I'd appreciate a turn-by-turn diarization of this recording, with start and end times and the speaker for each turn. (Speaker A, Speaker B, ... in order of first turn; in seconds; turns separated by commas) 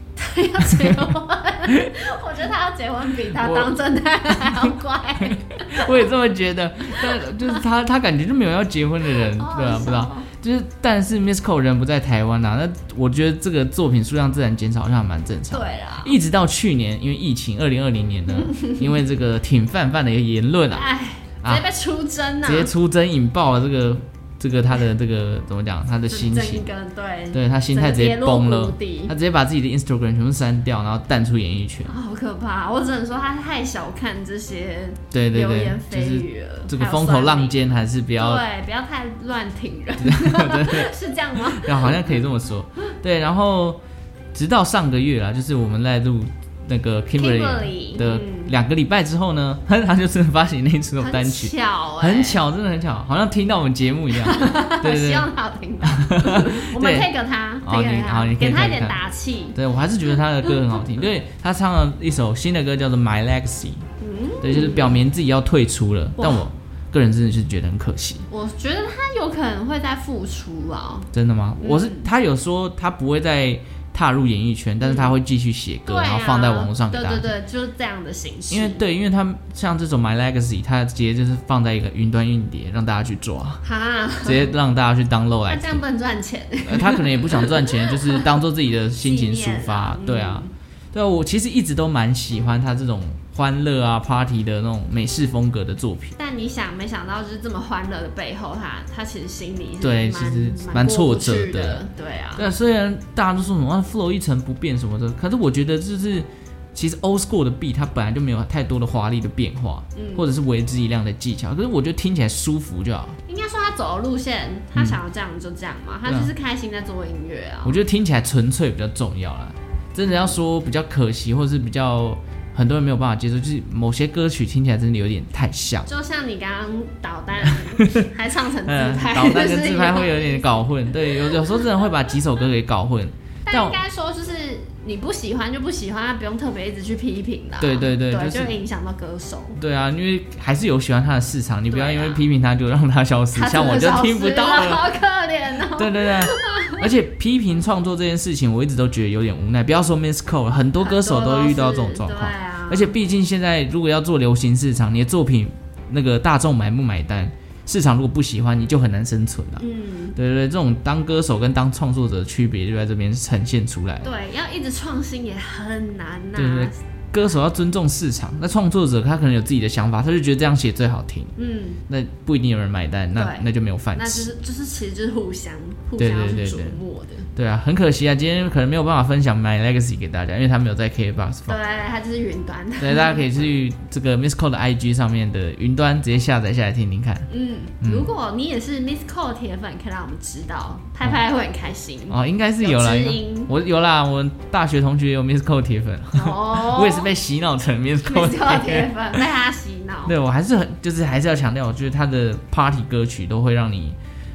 Speaker A: 0.1-6.1, Speaker B: 0.7-1.0, Speaker B: 1.7-1.9, Speaker B: 3.3-3.7, Speaker B: 4.3-20.9, Speaker A: 7.0-7.6, Speaker A: 9.1-10.3, Speaker A: 15.5-16.1, Speaker A: 18.3-18.8, Speaker A: 20.7-22.7, Speaker B: 22.4-26.6, Speaker A: 26.1-29.1, Speaker B: 27.3-31.9, Speaker A: 31.9-42.2, Speaker B: 35.1-38.4, Speaker B: 40.0-43.8, Speaker B: 44.3-55.3, Speaker A: 47.2-48.5, Speaker A: 51.0-52.4, Speaker A: 54.1-59.6, Speaker B: 55.8-57.1, Speaker B: 57.6-59.0, Speaker B: 59.5-63.9, Speaker A: 60.4-60.8, Speaker A: 64.0-65.0, Speaker B: 64.4-68.3, Speaker A: 66.2-66.5, Speaker A: 68.3-72.1, Speaker B: 71.1-77.3, Speaker A: 74.8-75.1, Speaker A: 75.8-78.8, Speaker B: 78.5-83.6, Speaker A: 83.6-84.5, Speaker B: 84.2-85.8, Speaker A: 85.5-88.4, Speaker B: 86.6-96.2, Speaker A: 89.0-90.5, Speaker A: 96.2-102.5, Speaker B: 99.8-101.8, Speaker B: 102.4-113.2, Speaker A: 109.9-110.3, Speaker A: 113.3-117.8, Speaker B: 116.0-116.3, Speaker B: 117.6-125.9, Speaker A: 120.0-120.3, Speaker A: 125.9-131.9, Speaker B: 127.4-128.1, Speaker B: 128.6-133.8, Speaker A: 133.5-139.6, Speaker B: 137.6-138.5, Speaker B: 139.6-144.8, Speaker A: 141.7-142.2, Speaker A: 143.3-146.9, Speaker B: 145.7-159.6, Speaker A: 150.8-152.9, Speaker A: 159.6-160.2, Speaker B: 160.2-164.1, Speaker A: 164.0-166.8, Speaker B: 166.3-171.3, Speaker A: 171.4-171.8, Speaker B: 171.9-174.3, Speaker A: 173.1-177.3, Speaker B: 176.0-176.8, Speaker B: 177.3-181.6, Speaker A: 181.5-183.4, Speaker B: 182.8-187.3, Speaker A: 187.3-193.5, Speaker B: 187.8-188.1, Speaker B: 192.1-199.2, Speaker A: 196.1-197.1, Speaker A: 198.1-200.2, Speaker B: 200.0-204.0